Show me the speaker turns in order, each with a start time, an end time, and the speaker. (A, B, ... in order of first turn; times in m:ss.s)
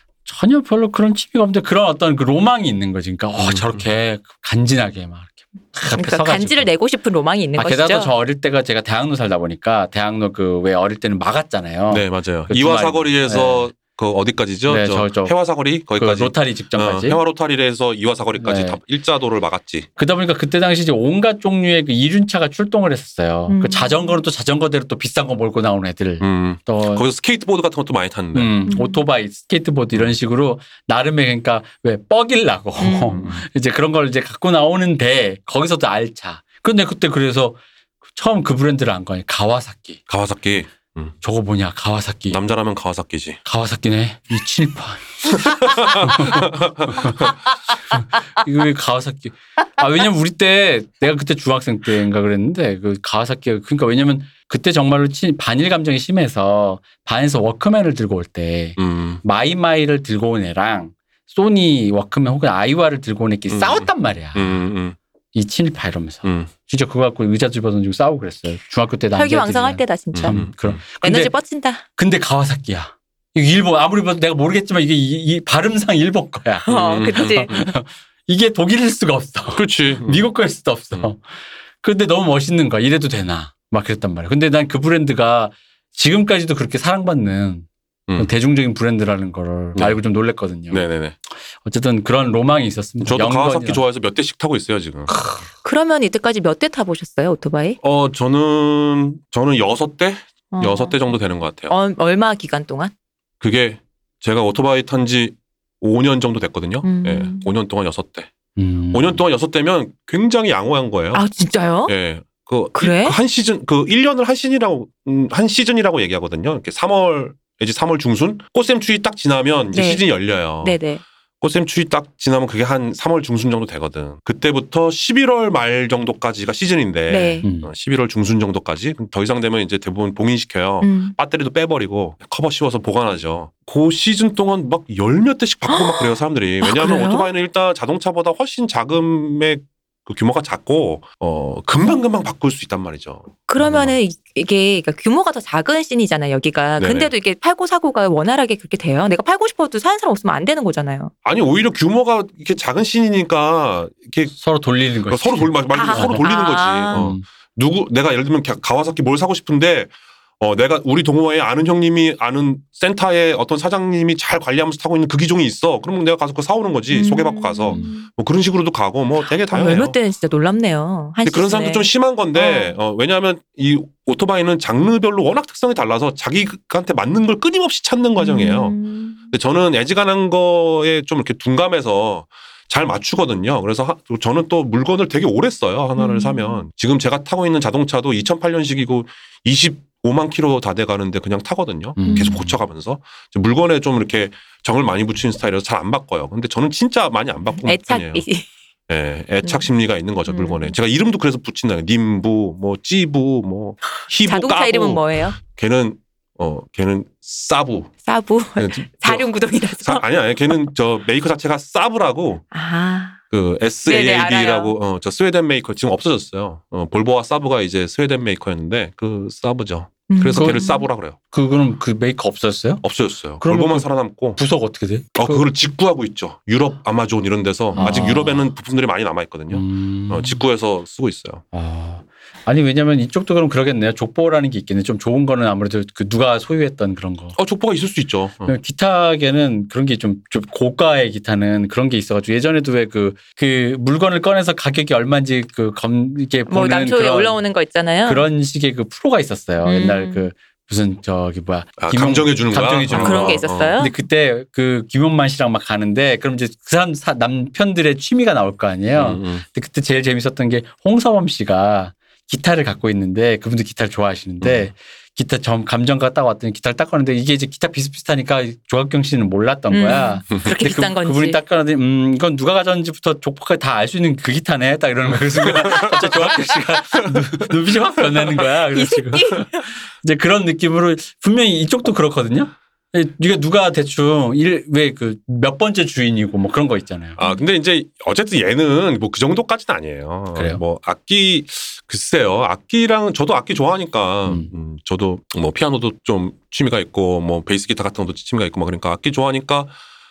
0:00.2-0:06.7 A
0:03.4-0:03.8 B
0:05.9-0:08.1 C
0:07.6-0:13.7 A
0:11.9-0:19.9 B
0:14.7-0:15.4 A
0:16.0-0:17.2 A
0:18.4-0:18.8 A
0:20.0-0:27.1 A
0:23.5-0:24.2 C
0:26.2-0:28.6 B
0:28.3-0:37.6 A
0:28.7-0:29.0 C
0:32.8-0:33.3 C
0:33.1-0:33.4 B
0:38.1-0:40.0 A
0:40.1-0:41.1 B
0:41.2-0:42.4 A
0:42.3-0:43.4 B
0:43.4-1:04.7 A
0:45.4-0:47.4 B
0:58.8-0:59.2 B
1:03.5-1:05.0 B
1:05.3-1:11.3 A
1:06.2-1:06.5 B
1:09.2-1:11.8 C
1:10.1-1:10.8 B
1:12.0-1:21.2 A
1:16.7-1:17.5 C
1:16.7-1:17.7 B
1:19.5-1:20.2 B
1:21.8-1:30.8 A
1:29.8-1:30.0 B
1:30.7-1:31.2 B
1:31.6-1:33.8 A
1:33.0-1:35.1 B
1:35.1-1:35.5 A
1:35.6-1:37.8 C
1:37.8-1:41.7 B
1:40.5-1:41.1 C
1:41.7-1:42.9 C
1:43.4-1:48.3 B
1:46.8-1:47.5 C
1:48.6-1:49.2 A
1:48.9-1:51.2 B
1:51.1-1:51.9 C
1:51.9-2:00.8 B
1:52.8-1:53.2 C
1:59.7-2:00.0 C
2:00.6-2:01.0 C
2:01.4-2:24.0 B
2:07.1-2:07.5 C
2:07.4-2:07.7 A
2:10.8-2:11.2 C
2:15.7-2:17.3 C
2:23.5-2:31.1 C
2:26.8-2:27.1 B
2:31.2-2:34.3 B
2:34.3-2:36.3 A
2:35.1-2:50.0 B
2:35.7-2:37.1 C
2:36.9-2:37.2 A
2:46.9-2:48.1 C
2:47.7-2:47.9 A
2:49.3-2:52.8 C
2:51.2-2:58.8 B
2:58.2-2:59.3 C
2:59.3-3:18.3 B
3:06.0-3:06.6 C
3:12.0-3:12.6 A
3:12.0-3:12.4 C
3:17.6-3:18.5 C
3:18.9-3:27.9 B
3:20.3-3:20.7 C
3:24.3-3:25.4 C
3:28.0-3:30.0 C
3:28.6-3:32.4 B
3:32.5-3:33.2 C
3:33.3-3:41.2 B
3:33.9-3:34.7 C
3:40.1-3:40.9 C
3:40.3-3:40.6 A
3:41.3-3:42.8 A
3:42.8-3:44.4 B
3:43.4-3:45.5 A
3:45.2-3:51.4 B
3:47.7-3:48.5 A
3:49.5-3:50.4 A
3:51.5-3:57.4 A
3:57.4-3:58.6 B
3:58.5-4:07.4 A
4:06.5-4:08.3 C
4:08.1-4:47.2 A
4:09.6-4:10.3 C
4:11.8-4:13.8 B
4:12.9-4:14.0 C
4:19.0-4:19.4 B
4:24.4-4:24.7 B
4:29.7-4:31.4 C
4:35.4-4:36.3 B
4:36.9-4:37.5 B
4:38.7-4:39.7 C
4:47.2-4:59.7 B
4:47.2-4:47.4 C
4:50.3-4:50.6 A
4:54.2-4:54.5 A